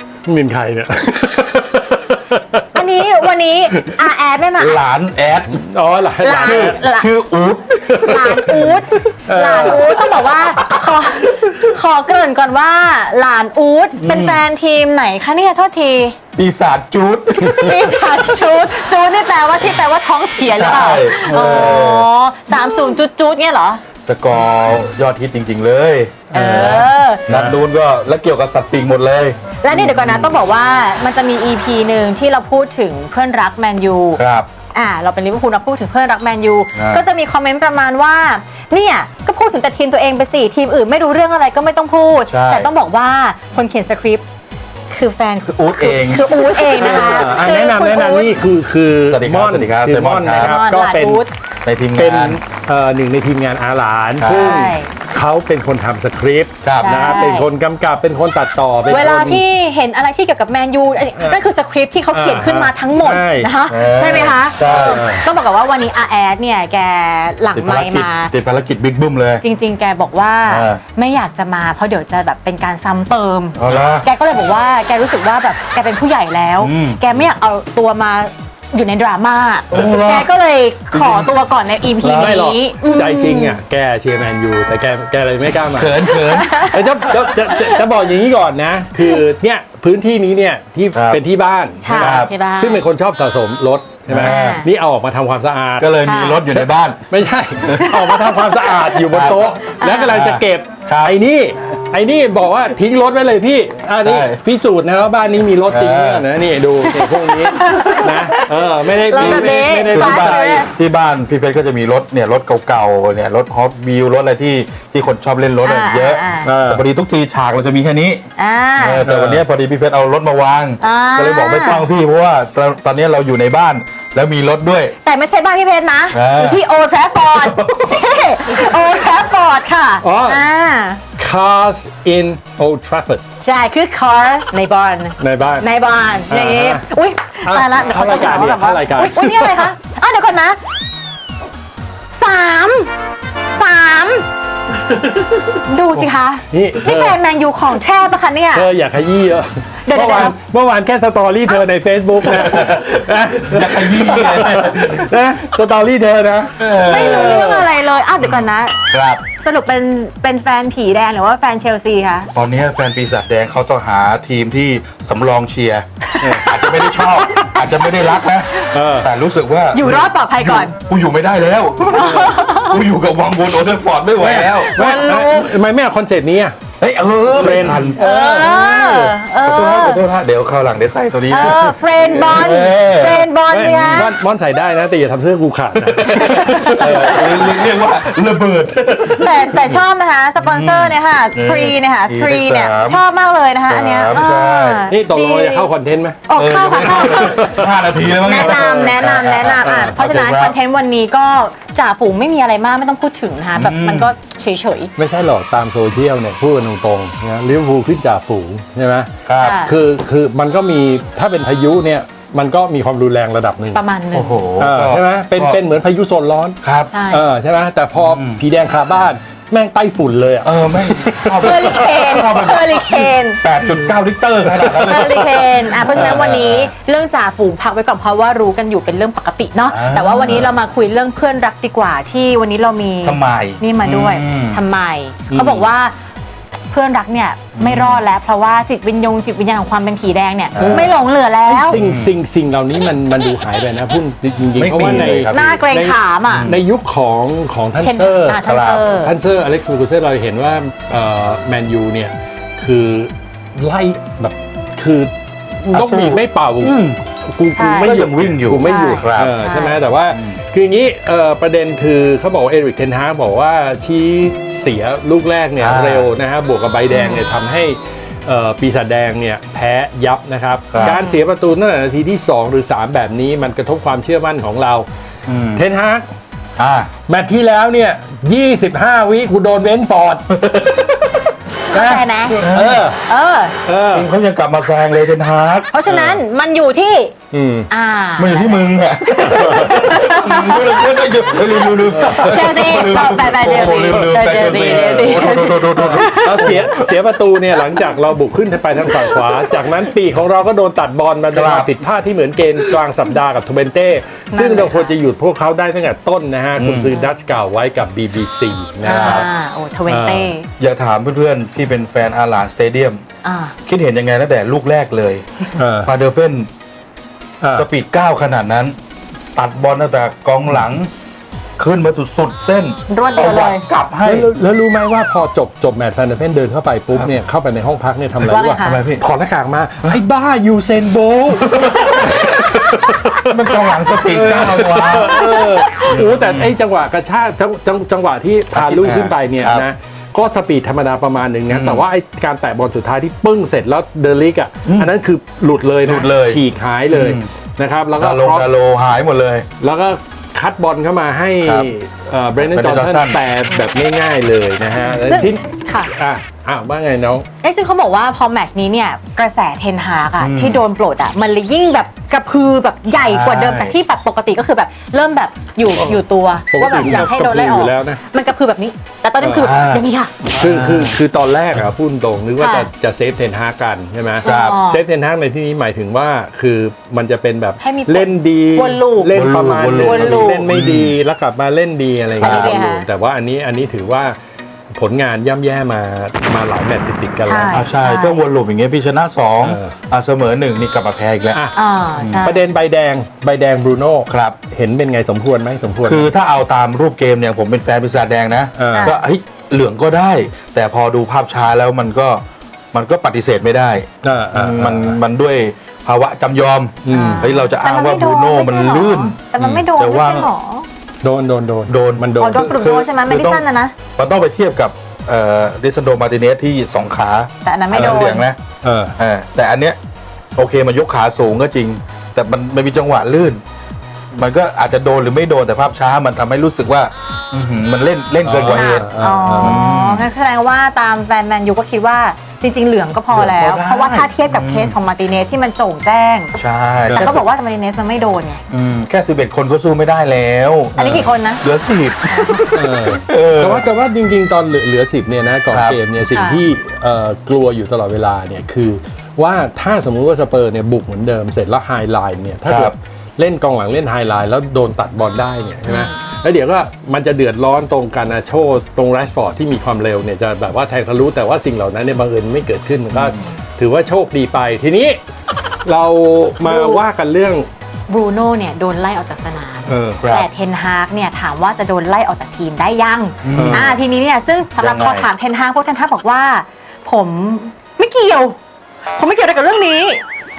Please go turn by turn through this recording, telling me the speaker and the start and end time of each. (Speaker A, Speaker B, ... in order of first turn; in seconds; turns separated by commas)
Speaker A: 0.2-2.8, Speaker B: 2.7-4.8, Speaker C: 4.6-5.6, Speaker A: 5.5-6.8, Speaker B: 6.2-7.1, Speaker C: 6.4-8.5, Speaker A: 7.9-10.6, Speaker B: 8.0-16.2, Speaker C: 14.0-14.4, Speaker C: 16.4-18.3, Speaker B: 17.6-23.8, Speaker C: 20.5-22.1, Speaker A: 21.3-21.6, Speaker C: 24.0-30.4, Speaker B: 26.3-27.2, Speaker A: 26.3-27.6, Speaker B: 29.6-34.2, Speaker C: 34.2-34.5, Speaker B: 34.7-44.2, Speaker C: 36.7-37.0, Speaker C: 42.3-42.7, Speaker B: 44.9-48.3, Speaker C: 45.4-47.2, Speaker A: 46.8-51.2, Speaker C: 49.1-50.6, Speaker B: 50.4-51.3, Speaker C: 51.6-52.4, Speaker A: 51.9-59.4, Speaker C: 54.2-54.6, Speaker B: 54.3-54.9, Speaker C: 56.6-57.0, Speaker B: 56.8-57.5, Speaker B: 58.9-68.3, Speaker A: 61.2-61.4, Speaker A: 62.1-63.5, Speaker C: 63.7-65.0, Speaker A: 64.6-65.3, Speaker C: 67.5-69.4, Speaker B: 69.4-83.6, Speaker C: 70.5-70.8, Speaker C: 73.6-74.0, Speaker A: 73.7-73.9, Speaker C: 76.6-77.0, Speaker C: 79.7-80.3, Speaker C: 80.9-81.3, Speaker C: 82.0-82.3, Speaker A: 82.0-110.6, Speaker C: 85.7-86.5, Speaker B: 86.0-87.8, Speaker C: 90.9-91.2, Speaker B: 91.8-92.9, Speaker C: 91.9-92.3, Speaker C: 94.1-94.6, Speaker B: 94.2-94.7, Speaker C: 95.8-97.1, Speaker B: 96.0-96.4, Speaker C: 97.6-98.0, Speaker B: 97.8-98.8, Speaker C: 99.1-99.5, Speaker B: 99.8-100.2, Speaker C: 100.1-101.1, Speaker C: 104.0-104.4, Speaker C: 105.7-106.3, Speaker B: 106.9-110.7, Speaker C: 109.1-118.2, Speaker B: 115.6-116.5, Speaker A: 116.4-116.8, Speaker B: 118.4-119.0, Speaker C: 118.8-124.9, Speaker A: 119.0-119.4, Speaker B: 120.8-121.8, Speaker B: 125.0-131.0, Speaker C: 126.1-126.6, Speaker C: 127.3-128.0, Speaker A: 130.0-130.5, Speaker A: 131.2-133.2, Speaker B: 133.4-140.6, Speaker A: 135.2-135.7, Speaker A: 136.2-136.8, Speaker A: 137.4-139.7, Speaker B: 142.1-142.9, Speaker B: 143.5-144.3, Speaker A: 144.9-147.2, Speaker B: 145.6-148.7, Speaker A: 148.5-157.7, Speaker B: 149.8-150.3, Speaker C: 152.2-155.1, Speaker C: 156.6-157.4, Speaker B: 156.8-158.8, Speaker C: 158.9-159.2, Speaker B: 159.3-162.3, Speaker C: 162.3-174.8, Speaker B: 166.1-168.6, Speaker A: 166.2-166.5, Speaker A: 168.7-169.1, Speaker B: 169.7-170.7, Speaker B: 171.9-172.8, Speaker A: 174.2-176.6, Speaker B: 174.7-175.5, Speaker C: 176.8-178.0, Speaker A: 177.3-179.1, Speaker B: 178.0-180.0, Speaker C: 179.4-183.2, Speaker B: 181.3-184.1, Speaker A: 181.4-187.7, Speaker C: 185.8-189.8, Speaker B: 186.2-187.1, Speaker B: 189.0-195.7, Speaker C: 190.4-193.0, Speaker C: 193.7-194.9, Speaker A: 194.9-196.2, Speaker B: 196.3-197.5, Speaker C: 196.3-200.6, Speaker A: 196.8-200.0, Speaker B: 198.2-204.9, Speaker C: 203.5-204.1, Speaker A: 205.0-213.8, Speaker C: 209.2-209.6, Speaker B: 209.4-209.7, Speaker B: 213.7-214.4, Speaker C: 214.1-215.6, Speaker A: 214.6-222.6, Speaker C: 216.6-216.9, Speaker B: 216.9-217.2, Speaker C: 218.0-218.4, Speaker C: 220.4-226.7, Speaker B: 221.4-223.4, Speaker A: 223.7-226.4, Speaker B: 224.8-235.9, Speaker C: 229.7-230.5, Speaker A: 230.2-230.5, Speaker C: 233.0-234.6, Speaker A: 235.3-235.7, Speaker B: 236.7-241.8, Speaker C: 237.6-238.0, Speaker C: 240.5-240.9, Speaker A: 240.6-248.4, Speaker C: 241.7-242.1, Speaker C: 244.6-245.6, Speaker B: 245.3-246.5, Speaker C: 246.3-246.6, Speaker B: 247.8-249.1, Speaker C: 248.4-248.9, Speaker A: 248.9-274.9, Speaker C: 255.7-257.0, Speaker B: 257.5-257.9, Speaker C: 257.8-259.4, Speaker B: 258.6-259.8, Speaker C: 260.1-260.4, Speaker C: 265.6-266.1, Speaker B: 266.9-267.3, Speaker C: 270.7-271.0, Speaker B: 270.8-271.2, Speaker C: 275.3-275.6, Speaker A: 275.5-276.1, Speaker C: 276.6-276.9, Speaker A: 277.1-280.3, Speaker C: 280.3-281.2, Speaker B: 281.7-282.4, Speaker A: 281.7-283.0, Speaker C: 282.4-282.9, Speaker B: 283.0-283.5, Speaker A: 283.6-284.1, Speaker C: 283.9-285.7, Speaker B: 285.7-287.1, Speaker A: 285.9-286.2, Speaker A: 287.3-287.7, Speaker B: 287.7-290.7, Speaker C: 288.2-296.8, Speaker A: 289.3-289.8, Speaker A: 291.9-292.9, Speaker B: 292.0-296.6, Speaker A: 293.4-309.3, Speaker C: 301.3-301.7, Speaker B: 304.3-304.9, Speaker C: 306.6-306.9, Speaker C: 308.8-309.3, Speaker B: 308.8-310.5, Speaker A: 309.9-310.3, Speaker C: 310.6-313.0, Speaker B: 313.2-313.5, Speaker C: 313.6-316.5, Speaker A: 315.6-315.9, Speaker A: 317.4-317.7, Speaker C: 317.5-318.7, Speaker C: 319.3-320.9, Speaker C: 321.6-324.3, Speaker B: 322.9-323.6, Speaker A: 324.0-348.5, Speaker C: 328.2-329.0, Speaker B: 328.3-328.8, Speaker C: 331.4-332.4, Speaker C: 333.1-335.3, Speaker C: 335.8-336.6, Speaker C: 338.5-339.7, Speaker C: 341.5-341.8, Speaker C: 344.6-344.9, Speaker C: 345.8-347.3, Speaker C: 348.0-349.5, Speaker A: 349.6-357.3, Speaker C: 351.4-351.7, Speaker C: 352.4-353.2, Speaker C: 354.8-355.3, Speaker B: 355.0-355.9, Speaker B: 357.4-370.1, Speaker C: 360.2-360.6, Speaker C: 362.9-363.8, Speaker A: 365.7-368.0, Speaker A: 369.2-369.6, Speaker C: 369.4-371.0, Speaker A: 370.4-384.1, Speaker B: 372.4-372.7, Speaker C: 374.2-374.6, Speaker B: 374.2-374.8, Speaker B: 377.6-379.2, Speaker C: 379.1-380.9, Speaker B: 379.7-380.5, Speaker C: 382.2-382.6, Speaker B: 382.2-382.9, Speaker A: 384.7-387.7, Speaker B: 387.2-388.2, Speaker C: 387.5-391.4, Speaker A: 389.4-389.8, Speaker B: 391.5-392.4, Speaker C: 392.0-392.3, Speaker A: 392.2-396.1, Speaker C: 394.1-394.4, Speaker C: 395.8-410.3, Speaker A: 398.6-398.9, Speaker B: 398.7-399.0, Speaker A: 404.0-405.0, Speaker A: 406.8-407.3, Speaker B: 406.9-410.7, Speaker A: 411.0-412.6, Speaker C: 411.7-413.4, Speaker B: 412.2-413.7, Speaker C: 413.9-418.4, Speaker B: 417.4-418.3, Speaker A: 417.7-418.1, Speaker A: 418.6-419.0, Speaker C: 419.0-419.8, Speaker C: 420.3-423.4, Speaker C: 424.1-428.9, Speaker A: 428.2-429.6, Speaker B: 428.5-436.3, Speaker C: 429.4-430.1, Speaker C: 433.1-434.7, Speaker C: 436.4-437.2, Speaker A: 436.9-437.1, Speaker B: 436.9-438.4, Speaker C: 438.5-443.6, Speaker B: 440.8-441.4, Speaker A: 440.8-441.1, Speaker B: 442.1-442.5, Speaker A: 442.5-465.0, Speaker C: 445.5-445.8, Speaker B: 446.1-446.4, Speaker C: 452.4-452.7, Speaker B: 455.7-456.0, Speaker C: 462.9-463.2, Speaker A: 465.6-467.5, Speaker B: 466.4-466.8, Speaker B: 467.9-478.4, Speaker A: 469.7-470.0, Speaker C: 470.0-470.3, Speaker C: 473.2-473.7, Speaker A: 473.3-473.8, Speaker C: 474.6-475.1, Speaker B: 478.9-480.0